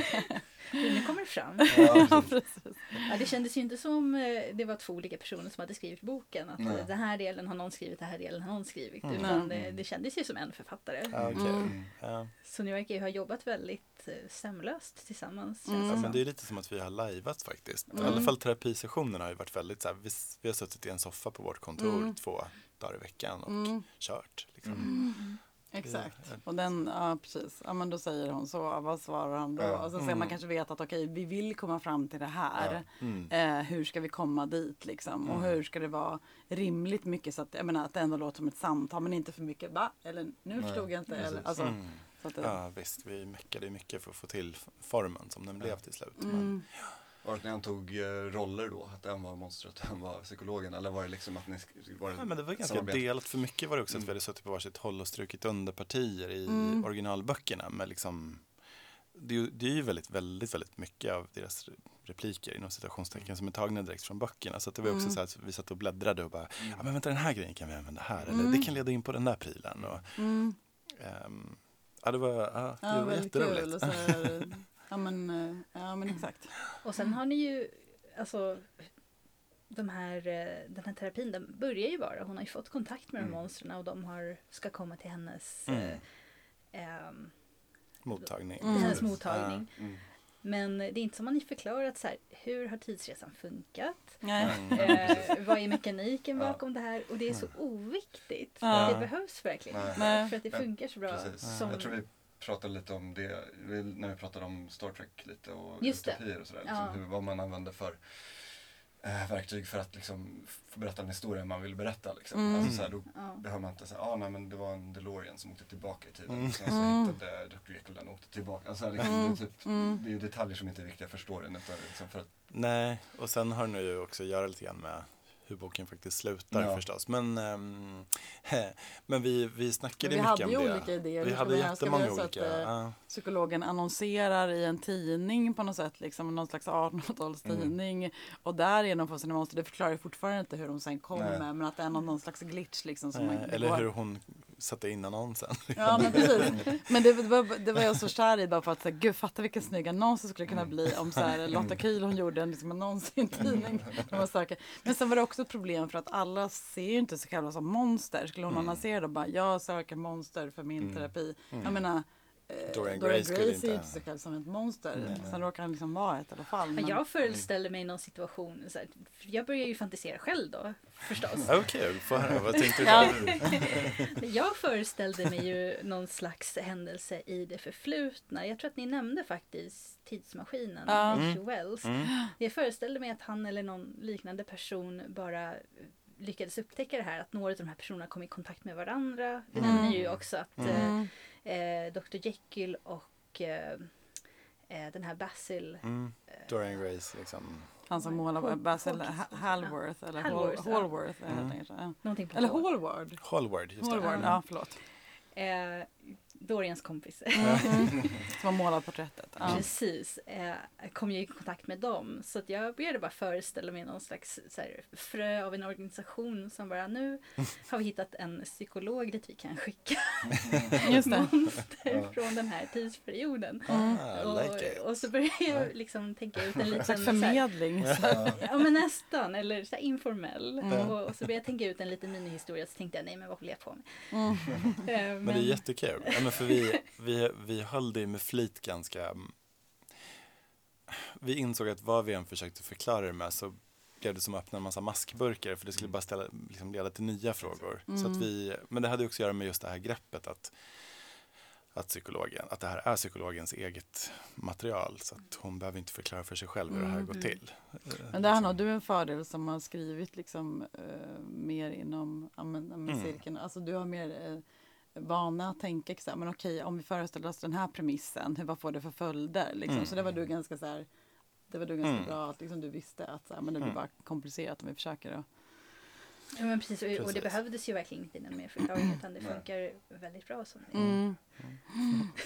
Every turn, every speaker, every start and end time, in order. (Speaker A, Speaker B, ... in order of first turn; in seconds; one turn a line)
Speaker A: 0.7-2.3
Speaker B: 1.7-3.1
Speaker C: 1.7-2.4
Speaker A: 3.0-11.5
Speaker C: 6.6-6.8
Speaker D: 9.0-9.3
Speaker B: 9.2-9.5
Speaker C: 9.5-9.8
Speaker D: 11.1-12.3
Speaker C: 11.1-11.9
Speaker B: 11.3-11.7
Speaker A: 12.4-16.2
Speaker B: 15.6-16.1
Speaker D: 15.8-25.1
Speaker B: 17.9-18.3
Speaker B: 21.8-22.2
Speaker B: 23.5-23.8
Speaker C: 24.6-24.9
Speaker B: 24.8-42.6
Speaker A: 24.8-25.4
Speaker D: 25.8-26.4
Speaker C: 29.6-29.9
Speaker D: 30.0-30.4
Speaker D: 33.0-33.3
Speaker C: 40.5-41.5
Speaker D: 41.5-47.0
Speaker B: 46.2-46.6
Speaker C: 46.9-54.1
Speaker D: 52.1-58.5
Speaker B: 56.5-56.9
Speaker D: 59.1-74.5
Speaker B: 64.8-65.2
Speaker C: 66.6-66.8
Speaker C: 68.3-68.7
Speaker B: 68.3-68.7
Speaker B: 70.2-70.6
Speaker B: 72.8-76.5
Speaker A: 76.8-78.9
Speaker A: 79.7-86.0
Speaker D: 85.7-86.0
Speaker A: 86.7-87.4
Speaker D: 88.0-89.6
Speaker A: 88.2-102.0
Speaker B: 88.6-89.0
Speaker C: 88.7-89.2
Speaker C: 89.8-90.0
Speaker B: 94.2-95.1
Speaker C: 94.4-95.5
Speaker D: 94.5-95.1
Speaker B: 98.6-99.0
Speaker D: 98.7-99.1
Speaker C: 99.7-122.3
Speaker B: 100.0-100.3
Speaker D: 101.4-101.7
Speaker A: 105.8-107.0
Speaker B: 112.3-112.8
Speaker D: 112.6-112.9
Speaker A: 113.1-113.4
Speaker B: 116.7-117.1
Speaker B: 119.0-120.0
Speaker D: 122.5-133.0
Speaker C: 126.5-126.8
Speaker B: 130.0-143.9
Speaker C: 137.4-137.7
Speaker C: 141.1-141.4
Speaker D: 143.1-146.7
Speaker B: 145.7-167.0
Speaker D: 158.5-158.8
Speaker C: 160.8-161.1
Speaker D: 162.7-164.0
Speaker C: 165.0-165.4
Speaker A: 166.7-196.9
Speaker D: 171.4-173.8
Speaker B: 172.8-173.3
Speaker C: 173.0-173.7
Speaker B: 180.9-181.3
Speaker D: 181.1-182.1
Speaker C: 189.5-190.2
Speaker B: 189.6-191.1
Speaker D: 190.6-190.9
Speaker D: 195.8-197.8
Speaker B: 197.9-204.8
Speaker A: 197.9-201.0
Speaker D: 201.3-201.6
Speaker A: 202.0-202.7
Speaker D: 203.2-204.4
Speaker A: 204.0-204.5
Speaker A: 205.3-208.3
Speaker B: 207.3-209.6
Speaker D: 207.4-207.8
Speaker D: 209.4-209.7
Speaker A: 209.4-236.7
Speaker C: 220.3-220.8
Speaker B: 220.8-221.3
Speaker C: 221.8-222.2
Speaker B: 223.7-224.0
Speaker D: 223.7-225.1
Speaker B: 226.8-228.4
Speaker C: 228.0-228.4
Speaker B: 230.6-230.9
Speaker D: 230.7-231.1
Speaker B: 234.1-234.8
Speaker D: 235.2-240.1
Speaker D: 240.9-251.2
Speaker B: 247.9-248.3
Speaker D: 251.7-258.5
Speaker B: 256.7-257.0
Speaker A: 257.1-257.4
Speaker B: 258.1-264.4
Speaker D: 262.9-263.2
Speaker B: 264.9-270.9
Speaker D: 269.7-270.0
Speaker B: 271.5-275.3
Speaker D: 271.8-272.1
Speaker A: 276.3-281.1
Speaker D: 276.9-277.4
Speaker D: 280.7-282.1
Speaker B: 280.7-282.1